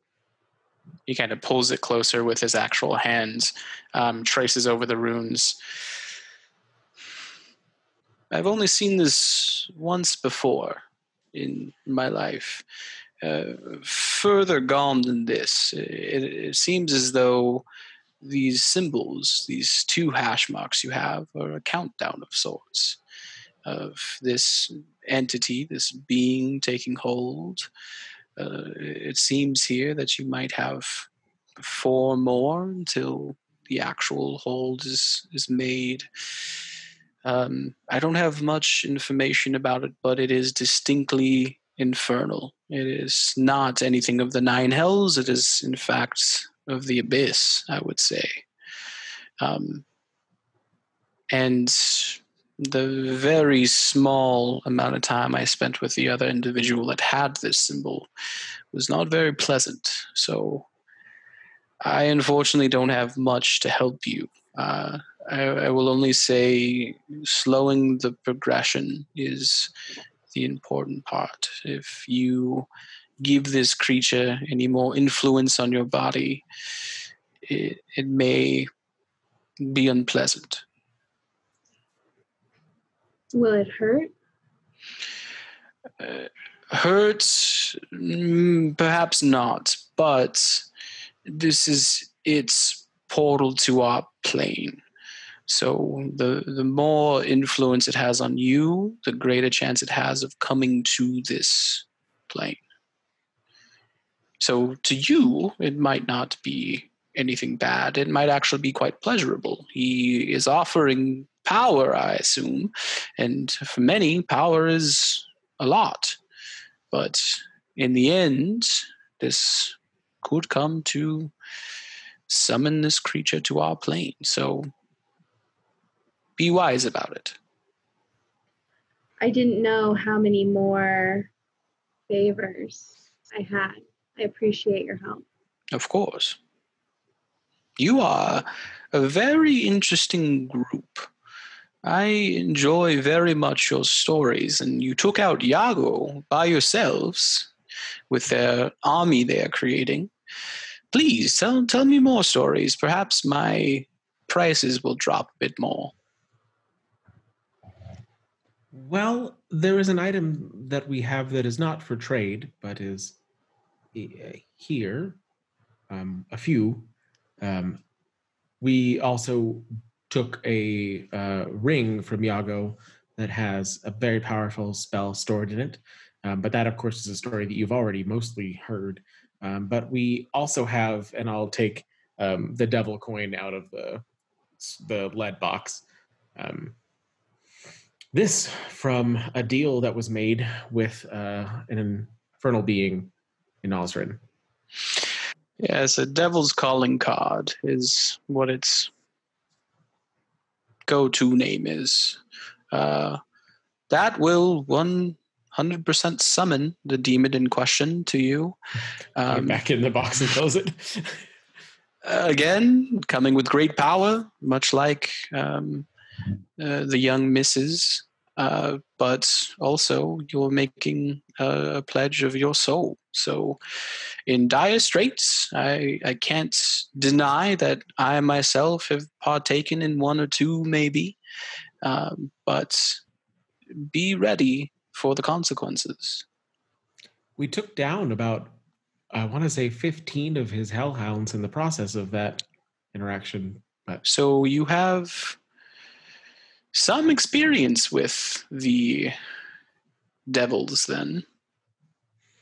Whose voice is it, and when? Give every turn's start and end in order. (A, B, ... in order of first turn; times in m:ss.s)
0:01.1-0:05.6 A
0:08.3-0:10.8 A
0:11.3-0:12.6 A
0:13.2-0:17.6 A
0:18.2-0:23.0 A
0:23.6-0:27.7 A
0:28.4-0:36.1 A
0:37.2-0:48.4 A
0:49.4-0:49.8 A
0:51.3-0:58.1 A
0:58.7-1:00.7 A
1:01.8-1:09.7 A
1:10.3-1:12.7 A
1:13.2-1:16.4 A
1:17.5-1:18.7 A
1:19.6-1:20.6 A
1:23.3-1:24.1 B
1:26.0-1:30.7 A
1:31.3-1:34.8 A
1:35.5-1:42.6 A
1:44.4-1:56.2 A
1:56.9-2:01.3 A
2:02.3-2:04.7 A
2:06.4-2:07.4 A
2:09.2-2:11.3 B
2:12.1-2:15.2 B
2:15.7-2:16.4 A
2:17.8-2:21.1 A
2:21.8-2:27.5 A
2:28.1-2:30.1 A
2:30.9-2:35.9 A
2:38.7-2:43.2 C
2:43.9-2:45.2 C
2:45.9-2:46.9 C
2:47.4-2:47.8 C
2:48.6-3:04.0 C
3:04.6-3:05.8 C
3:06.4-3:06.8 C
3:08.1-3:13.1 C
3:13.6-3:14.2 C
3:15.6-3:18.9 A
3:20.9-3:22.2 A
3:22.7-3:23.2 A
3:23.9-3:28.6 A
3:29.2-3:29.6 A
3:29.3-3:31.2 C
3:32.0-3:35.9 A
3:36.6-3:43.6 A
3:44.3-3:51.2 A
3:51.8-3:53.0 A
3:53.8-3:56.2 A
3:57.4-3:58.6 C
3:59.1-4:04.0 C
4:04.0-4:05.4 A
4:06.7-4:09.1 A
4:10.3-4:11.2 A